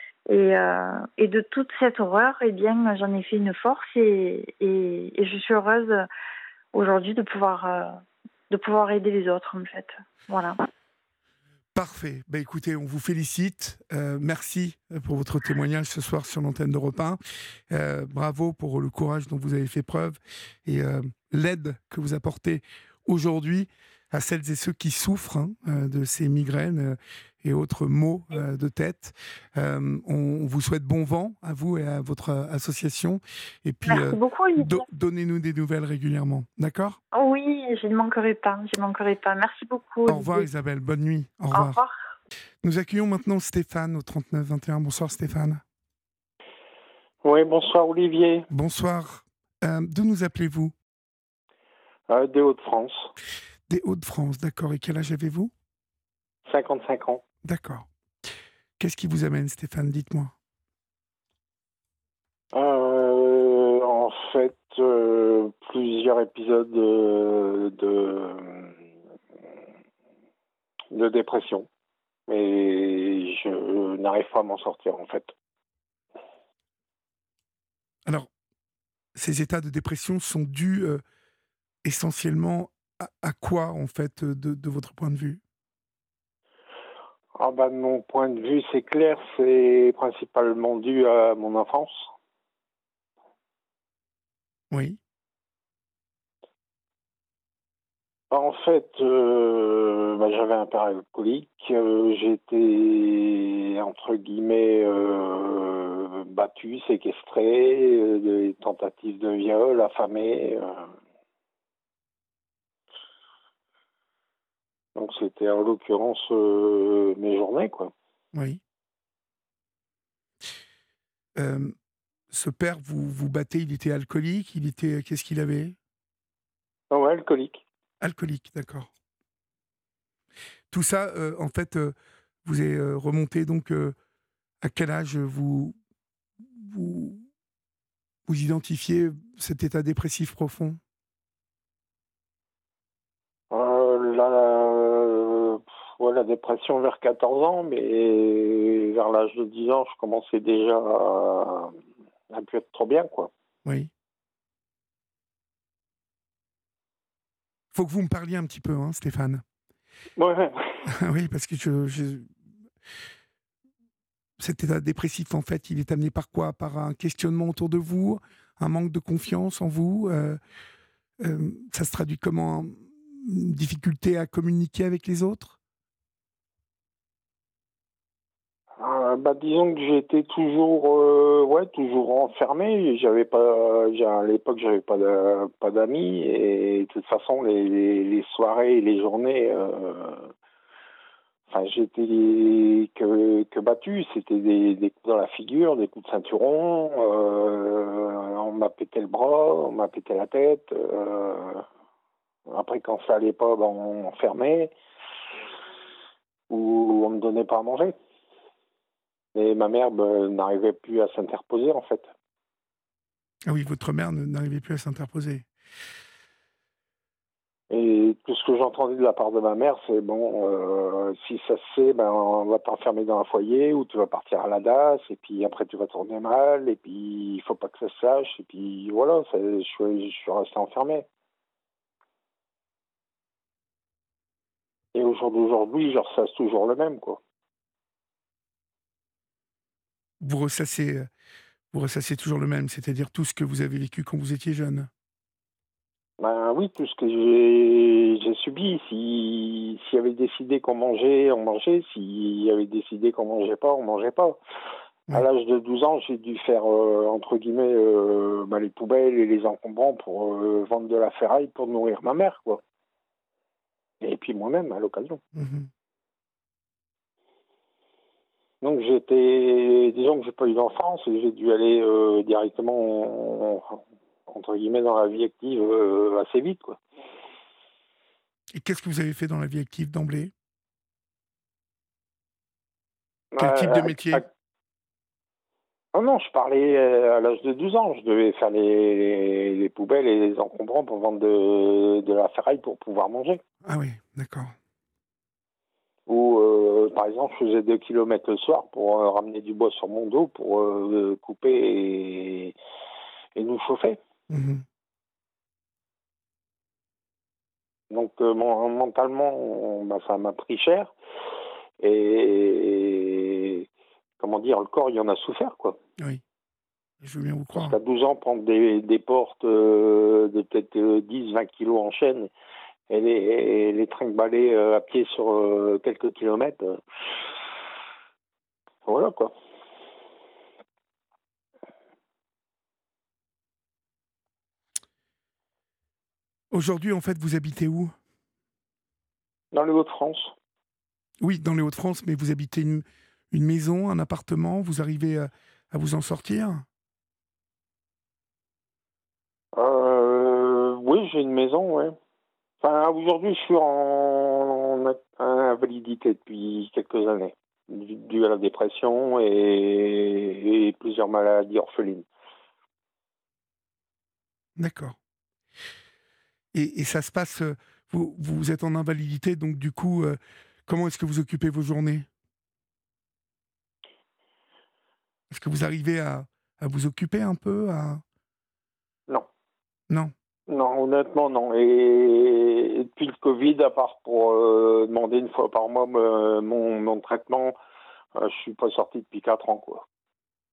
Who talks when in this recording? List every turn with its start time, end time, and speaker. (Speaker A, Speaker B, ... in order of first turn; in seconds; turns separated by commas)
Speaker A: 0.3-6.1, Speaker A: 6.7-10.6, Speaker B: 11.7-17.2, Speaker B: 17.7-37.0, Speaker A: 33.9-34.9, Speaker A: 37.1-40.5, Speaker B: 40.1-41.8, Speaker A: 41.5-42.0, Speaker B: 42.6-45.6, Speaker C: 47.2-48.5, Speaker B: 48.5-50.8, Speaker C: 52.1-53.1, Speaker B: 53.7-55.5, Speaker C: 56.5-57.2, Speaker B: 57.4-60.3, Speaker C: 62.5-68.7, Speaker C: 70.9-71.7, Speaker C: 72.3-75.3, Speaker B: 79.2-81.0, Speaker B: 81.8-85.4, Speaker C: 87.4-92.1, Speaker B: 94.7-95.0, Speaker C: 98.3-110.8, Speaker C: 115.0-117.9, Speaker B: 118.3-118.6, Speaker B: 121.4-121.8, Speaker B: 122.3-125.8, Speaker C: 126.9-127.6, Speaker B: 128.0-128.9, Speaker B: 130.7-133.9, Speaker B: 134.6-135.8, Speaker B: 136.4-137.2, Speaker B: 138.3-140.8, Speaker C: 143.5-151.7, Speaker C: 152.3-153.3, Speaker B: 153.7-153.9, Speaker B: 157.7-159.4, Speaker C: 160.2-160.9, Speaker B: 160.9-162.3, Speaker B: 164.4-170.4, Speaker B: 171.2-175.6, Speaker C: 178.8-190.3, Speaker C: 191.5-201.6, Speaker C: 202.5-204.7, Speaker C: 206.5-207.9, Speaker C: 209.3-212.1, Speaker B: 213.5-215.5, Speaker C: 217.7-231.1, Speaker C: 234.9-237.2, Speaker B: 240.2-241.1, Speaker B: 241.7-244.9, Speaker C: 246.2-254.4, Speaker C: 255.1-262.6, Speaker C: 264.0-265.2, Speaker B: 265.4-265.7, Speaker C: 268.6-276.8, Speaker B: 278.5-280.3, Speaker C: 283.3-284.3, Speaker B: 283.4-284.2, Speaker C: 285.9-293.4, Speaker B: 293.6-294.5, Speaker C: 296.1-302.6, Speaker C: 303.4-304.0, Speaker B: 304.3-304.6, Speaker C: 307.9-310.9, Speaker C: 311.8-313.7, Speaker C: 314.2-315.8, Speaker B: 317.0-317.8, Speaker C: 317.6-322.3, Speaker C: 322.9-326.8, Speaker C: 328.9-329.3, Speaker B: 336.5-337.9, Speaker C: 339.5-340.4, Speaker B: 341.2-346.7, Speaker C: 349.6-352.0, Speaker C: 352.6-362.1, Speaker B: 364.6-365.0, Speaker B: 366.5-372.1, Speaker B: 375.3-378.0, Speaker C: 380.5-387.6, Speaker C: 388.2-389.9